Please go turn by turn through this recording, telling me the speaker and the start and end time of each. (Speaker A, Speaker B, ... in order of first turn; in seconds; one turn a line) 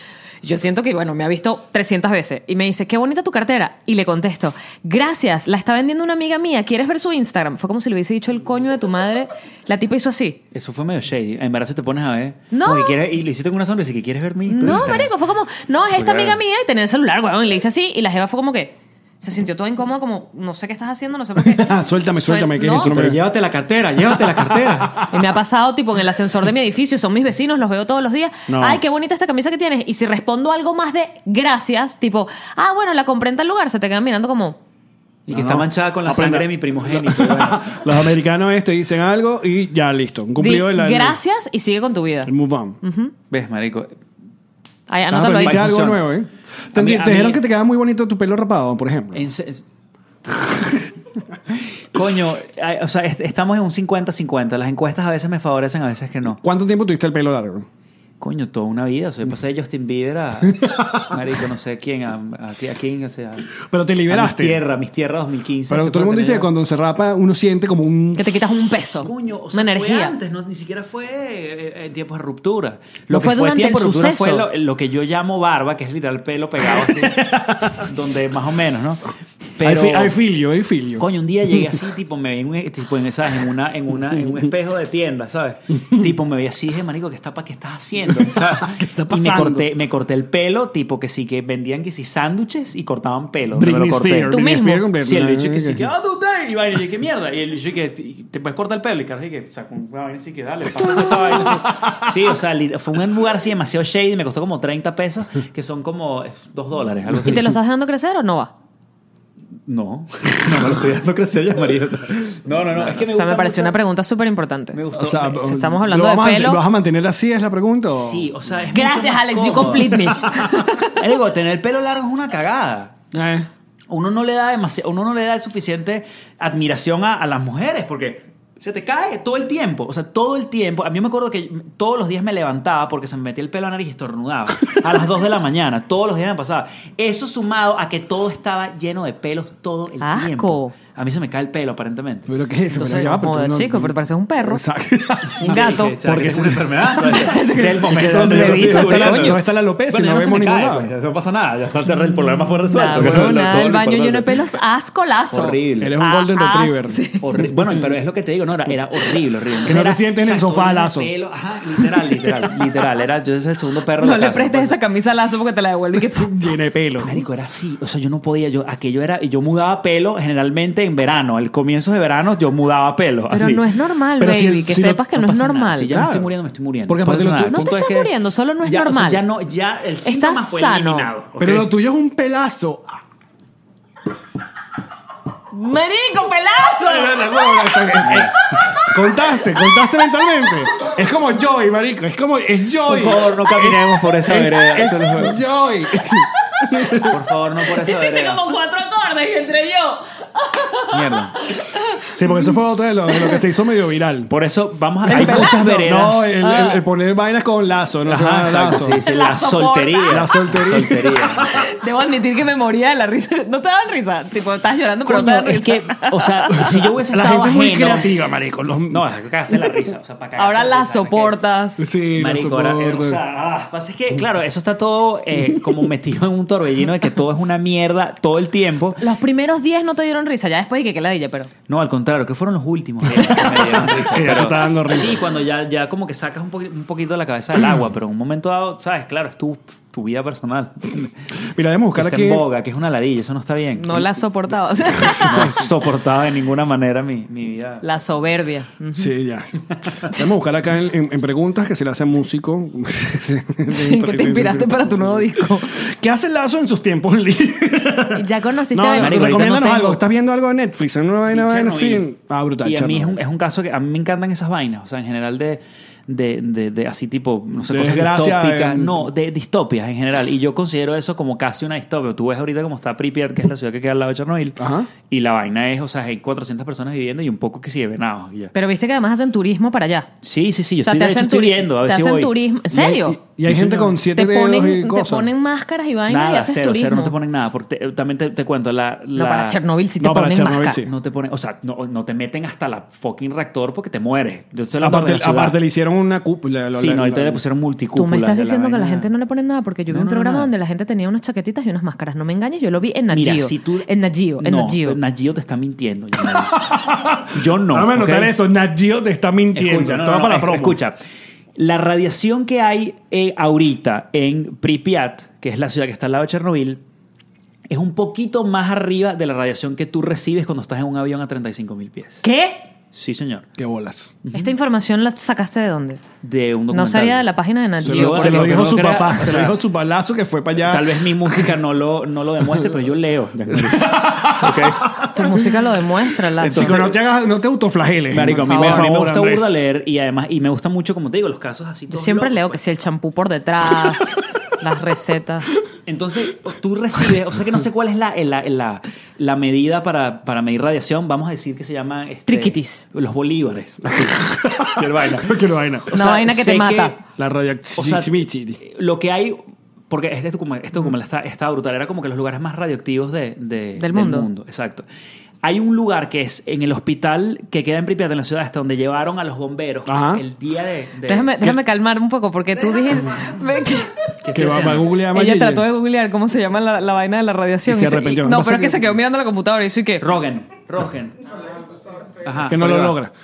Speaker A: 0.4-10.4
Speaker B: 10.5-15.1
Speaker A: 12.5-12.9
Speaker A: 14.5-22.9
Speaker B: 16.0-16.3
Speaker C: 21.4-23.2
Speaker B: 22.8-25.0
Speaker C: 24.1-25.1
Speaker A: 25.1-34.6
Speaker C: 28.5-28.8
Speaker B: 35.3-38.1
Speaker C: 35.3-41.2
Speaker A: 40.4-42.3
Speaker C: 42.3-42.8
Speaker A: 42.8-43.1
Speaker B: 43.3-43.9
Speaker A: 44.9-45.7
Speaker C: 45.1-49.2
Speaker B: 45.3-46.1
Speaker B: 46.7-47.4
Speaker B: 49.1-49.6
Speaker C: 50.4-50.8
Speaker B: 51.5-56.4
Speaker C: 56.4-57.7
Speaker B: 58.2-63.5
Speaker C: 60.5-61.2
Speaker C: 63.6-64.6
Speaker B: 64.1-66.5
Speaker C: 65.7-68.2
Speaker A: 68.2-70.2
Speaker B: 69.0-77.2
Speaker A: 73.1-74.5
Speaker C: 76.7-77.9
Speaker B: 77.8-80.2
Speaker C: 79.6-81.7
Speaker B: 81.0-94.4
Speaker C: 88.1-89.7
Speaker C: 93.5-95.8
Speaker A: 94.3-94.9
Speaker B: 95.0-107.5
Speaker C: 100.8-102.3
Speaker A: 107.2-108.5
Speaker B: 109.7-113.8
Speaker A: 112.9-114.8
Speaker B: 114.7-115.6
Speaker C: 114.9-118.3
Speaker A: 115.4-116.6
Speaker B: 117.9-120.2
Speaker A: 118.7-121.0
Speaker C: 119.9-120.6
Speaker B: 120.9-123.1
Speaker C: 123.1-123.5
Speaker B: 123.9-143.2
Speaker A: 140.0-140.8
Speaker C: 142.3-150.9
Speaker A: 143.2-144.6
Speaker B: 145.4-154.4
Speaker A: 145.4-146.0
Speaker A: 147.0-149.4
Speaker A: 152.7-157.5
Speaker C: 152.9-153.4
Speaker B: 155.3-156.0
Speaker C: 155.8-157.0
Speaker B: 157.2-164.8
Speaker C: 159.7-161.1
Speaker A: 164.0-166.5
Speaker C: 166.1-167.2
Speaker B: 167.0-173.7
Speaker A: 173.3-175.9
Speaker C: 174.2-175.0
Speaker B: 174.9-181.7
Speaker C: 175.9-176.3
Speaker C: 176.9-177.7
Speaker A: 177.5-179.2
Speaker A: 180.1-181.1
Speaker C: 181.4-183.0
Speaker A: 185.5-189.5
Speaker C: 186.8-197.2
Speaker B: 188.0-188.3
Speaker B: 192.8-195.4
Speaker A: 196.5-197.1
Speaker B: 197.0-198.4
Speaker A: 197.8-202.5
Speaker B: 200.9-201.4
Speaker C: 202.1-204.3
Speaker A: 203.1-203.4
Speaker B: 204.3-206.3
Speaker A: 205.1-205.8
Speaker C: 205.1-209.0
Speaker A: 206.4-206.8
Speaker B: 208.1-211.6
Speaker A: 209.0-210.3
Speaker C: 210.1-211.7
Speaker A: 211.6-216.7
Speaker B: 215.1-218.1
Speaker C: 216.6-219.0
Speaker B: 218.9-221.4
Speaker A: 220.4-221.8
Speaker C: 221.8-223.2
Speaker B: 222.1-229.0
Speaker A: 229.0-231.5
Speaker B: 231.7-241.1
Speaker C: 233.2-235.3
Speaker C: 241.4-242.4
Speaker B: 242.0-244.1
Speaker A: 243.8-245.6
Speaker B: 245.0-247.8
Speaker A: 247.8-249.1
Speaker C: 248.9-263.2
Speaker A: 253.7-255.7
Speaker A: 258.1-259.4
Speaker B: 258.9-260.0
Speaker B: 261.3-262.1
Speaker B: 262.6-278.5
Speaker C: 267.7-269.1
Speaker C: 274.6-274.9
Speaker A: 278.6-280.1
Speaker B: 280.2-282.3
Speaker A: 280.9-283.2
Speaker C: 282.7-285.3
Speaker B: 283.5-284.0
Speaker A: 284.1-287.1
Speaker B: 286.1-289.6
Speaker A: 289.1-290.8
Speaker C: 290.0-290.9
Speaker B: 290.8-295.6
Speaker C: 294.8-297.4
Speaker B: 296.7-299.1
Speaker A: 298.0-305.0
Speaker B: 299.9-300.5
Speaker B: 303.1-303.9
Speaker B: 304.4-306.7
Speaker C: 306.5-310.8
Speaker B: 307.3-308.3
Speaker B: 309.5-311.0
Speaker B: 311.6-316.8
Speaker B: 317.7-322.2
Speaker A: 322.2-322.6
Speaker B: 322.9-323.5
Speaker C: 323.6-324.2
Speaker B: 324.2-324.5
Speaker A: 324.3-326.0
Speaker B: 326.2-327.3
Speaker A: 326.7-328.5
Speaker B: 327.8-329.6
Speaker C: 327.8-331.6
Speaker B: 330.6-335.0
Speaker C: 333.5-335.5
Speaker A: 335.1-336.8
Speaker B: 336.4-336.9
Speaker C: 336.5-339.6
Speaker B: 338.1-342.6
Speaker A: 338.3-338.9
Speaker A: 341.9-345.5
Speaker B: 345.9-357.0
Speaker A: 352.3-352.8
Speaker C: 353.9-355.9
Speaker A: 355.9-357.0
Speaker C: 357.2-358.6
Speaker B: 357.8-364.9
Speaker A: 363.8-364.3
Speaker B: 365.4-371.6
Speaker C: 369.9-370.2
Speaker A: 371.1-374.1
Speaker B: 374.2-374.9
Speaker C: 374.3-375.7
Speaker A: 375.1-380.1
Speaker C: 377.7-378.9
Speaker B: 380.0-381.2
Speaker B: 382.2-383.0
Speaker C: 382.5-383.1